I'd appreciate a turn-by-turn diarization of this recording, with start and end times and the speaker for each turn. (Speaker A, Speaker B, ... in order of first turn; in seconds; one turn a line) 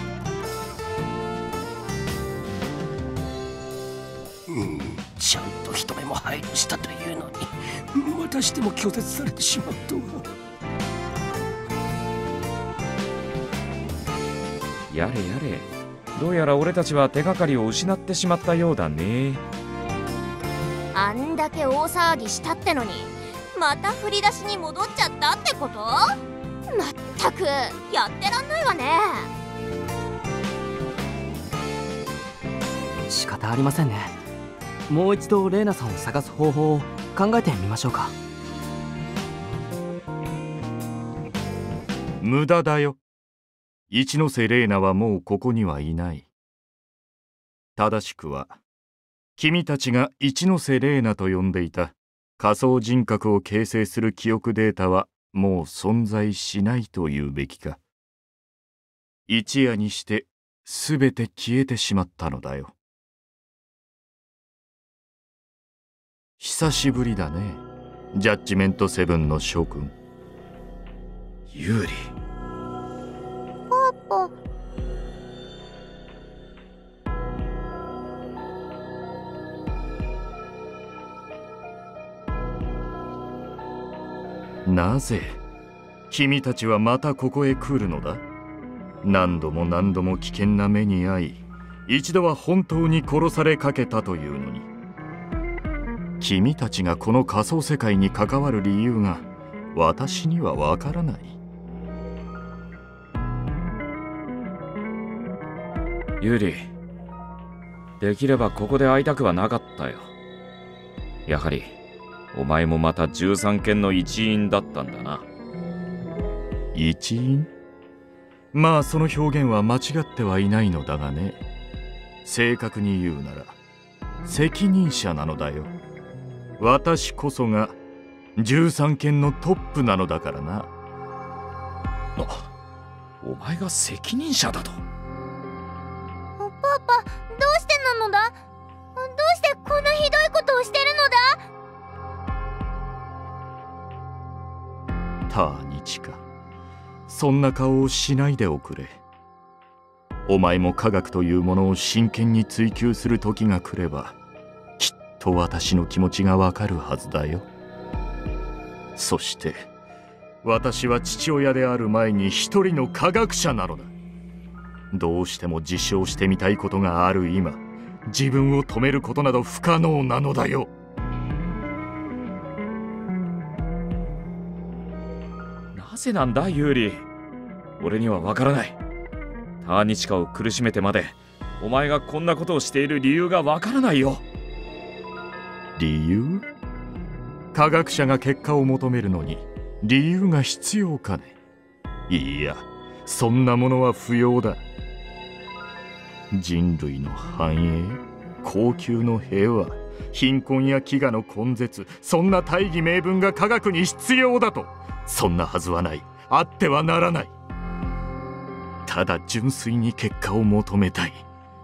Speaker A: 4.5-10.3
Speaker B: 14.9-19.4
Speaker C: 20.9-26.2
Speaker C: 26.7-29.3
Speaker D: 33.0-34.1
Speaker D: 34.9-38.1
Speaker E: 42.2-43.0
Speaker E: 43.9-46.3
Speaker E: 47.8-48.6
Speaker E: 49.4-57.8
Speaker E: 59.3-62.7
Speaker E: 66.4-69.9
Speaker B: 71.5-72.1
Speaker F: 73.7-74.3
Speaker E: 84.6-85.4
Speaker E: 86.1-88.2
Speaker E: 89.0-94.7
Speaker E: 96.2-101.4
Speaker B: 106.2-106.7
Speaker B: 108.0-110.1
Speaker B: 111.3-111.8
Speaker B: 112.3-115.2
Speaker E: 116.7-117.5
Speaker E: 118.5-121.4
Speaker E: 122.2-123.5
Speaker E: 124.2-125.7
Speaker E: 126.6-127.8
Speaker E: 128.3-130.7
Speaker B: 132.2-132.5
Speaker B: 133.2-134.8
Speaker F: 136.4-138.4
Speaker F: 138.9-141.4
Speaker E: 145.3-146.2
Speaker E: 147.1-149.0
Speaker E: 150.3-154.2
Speaker E: 154.8-157.4
Speaker E: 158.9-159.7
Speaker E: 160.4-163.9
Speaker E: 164.9-170.7
Speaker B: 175.7-177.0
Speaker B: 177.8-178.8
Speaker B: 179.6-184.2
Speaker E: 185.8-186.4
Speaker E: 187.5-191.3
Speaker E: 192.1-194.6
Speaker E: 196.3-207.3
Speaker E: 208.8-211.2